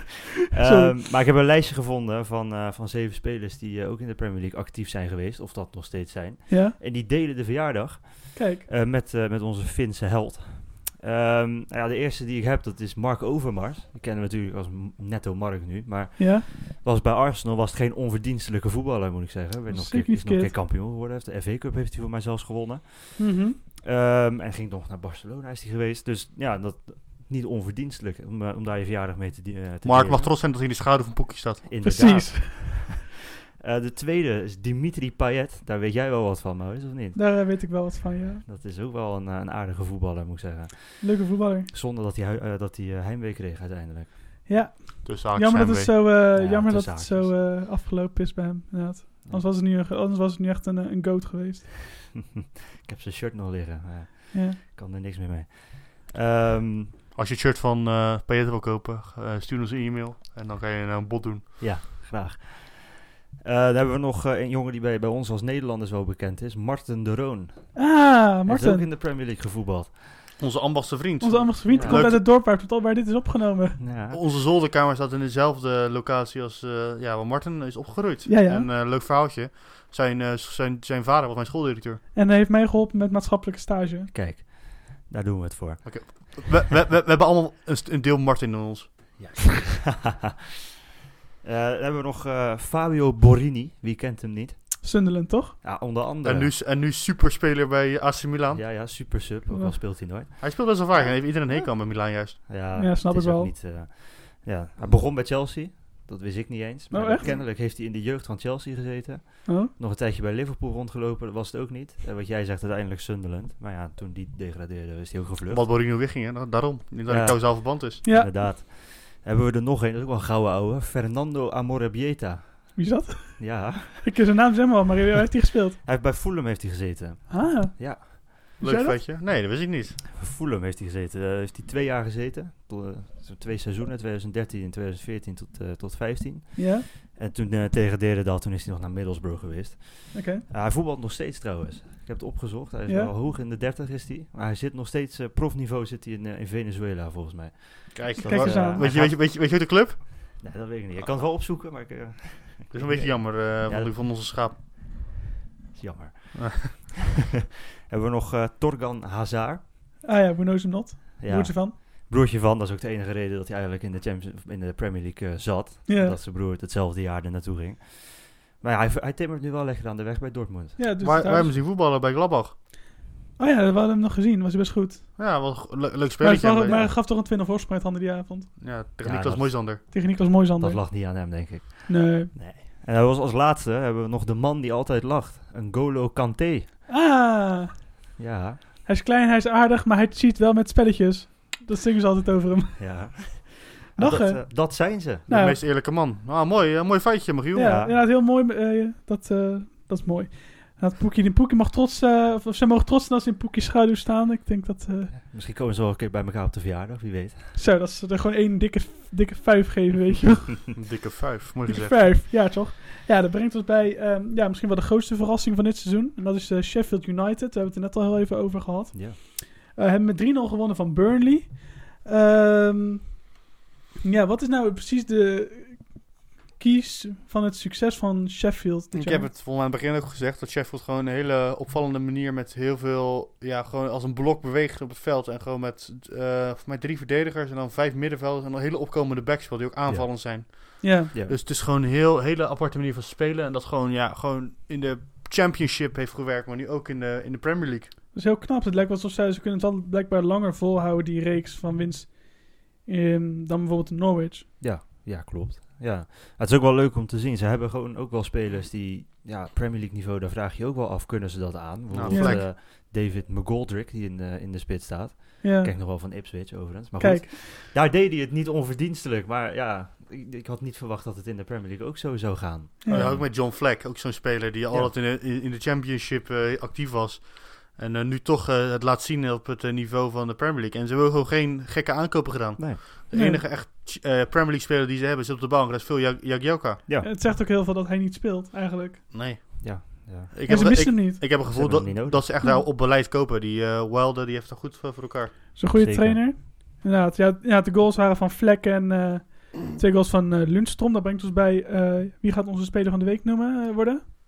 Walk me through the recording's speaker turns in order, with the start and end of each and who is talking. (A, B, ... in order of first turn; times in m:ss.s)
0:00.5-0:30.3 A
0:00.6-0:01.0 B
0:06.5-0:06.8 B
0:08.4-0:08.6 B
0:16.2-0:16.4 B
0:19.7-0:20.5 B
0:23.2-0:23.6 B
0:29.8-0:31.7 C
0:31.7-0:37.9 A
0:31.8-0:32.9 B
0:37.2-0:38.4 B
0:38.4-0:44.5 A
0:41.0-0:41.7 B
0:44.5-0:51.8 B
0:45.0-0:46.0 C
0:46.3-0:47.4 A
0:52.8-0:56.9 A
0:54.3-0:54.6 B
0:57.2-1:01.6 C
1:01.6-1:10.0 A
1:07.8-1:08.9 B
1:10.4-1:12.2 C
1:11.2-1:13.8 B
1:11.7-1:12.1 A
1:13.8-1:14.2 A
1:14.1-1:22.0 C
1:18.3-1:18.7 B
1:22.1-1:24.1 B
1:24.1-1:26.5 A
1:25.8-1:29.3 C
1:29.2-1:30.3 A
1:31.4-1:34.9 A
1:34.8-1:35.6 B
1:35.6-1:36.5 A
1:36.2-1:38.6 C
1:38.5-1:41.7 A
1:39.5-1:39.8 B
1:40.4-1:42.4 C
1:42.5-1:55.7 A
1:42.7-1:43.5 B
1:46.9-1:47.3 B
1:49.5-1:49.7 B
1:55.5-1:58.0 C
1:57.1-2:04.2 A
1:58.0-1:58.4 B
2:02.8-2:05.8 B
2:05.8-2:08.4 A
2:07.3-2:09.0 B
2:08.6-2:10.0 C
2:10.1-2:29.8 A
2:16.6-2:16.8 B
2:20.1-2:20.4 B
2:22.9-2:23.1 B
2:27.9-2:30.4 C
2:28.2-2:28.9 B
2:30.3-2:34.0 A
2:32.7-2:34.6 C
2:35.7-2:36.8 A
2:36.4-2:36.7 C
2:37.9-2:39.6 A
2:40.0-2:41.8 B
2:41.2-2:50.8 A
2:45.9-2:46.2 B
2:50.8-2:51.6 B
2:51.0-2:52.6 C
2:53.4-2:55.2 B
2:55.2-2:56.9 C
2:56.2-2:58.6 B
2:56.7-2:57.0 A
2:58.6-2:59.8 C
2:59.0-3:06.7 A
2:59.9-3:02.3 B
3:06.9-3:07.9 B
3:08.2-3:08.6 A
3:08.8-3:15.6 B
3:12.8-3:15.3 A
3:15.3-3:17.7 C
3:17.5-3:25.1 B
3:17.6-3:18.0 A
3:25.1-3:27.5 A
3:27.6-3:30.8 B
3:30.8-3:32.0 C
3:31.7-3:43.3 B
3:38.9-3:39.2 A
3:44.0-3:49.3 B
3:48.9-4:07.9 C
3:59.9-4:00.5 A
4:00.8-4:01.1 B
4:01.1-4:01.4 A
4:08.1-4:14.5 B
4:14.6-4:33.3 A
4:21.9-4:22.5 C
4:22.1-4:22.4 B
4:25.4-4:26.3 B
4:27.0-4:27.3 B
4:32.8-4:33.2 B
4:32.9-4:46.8 C
4:43.1-4:43.4 B
4:47.0-4:49.0 B
4:49.1-4:55.4 C
4:49.6-4:50.8 A
4:50.5-4:51.2 B
4:51.5-4:52.3 A
4:55.6-5:04.0 B
4:55.7-4:56.3 A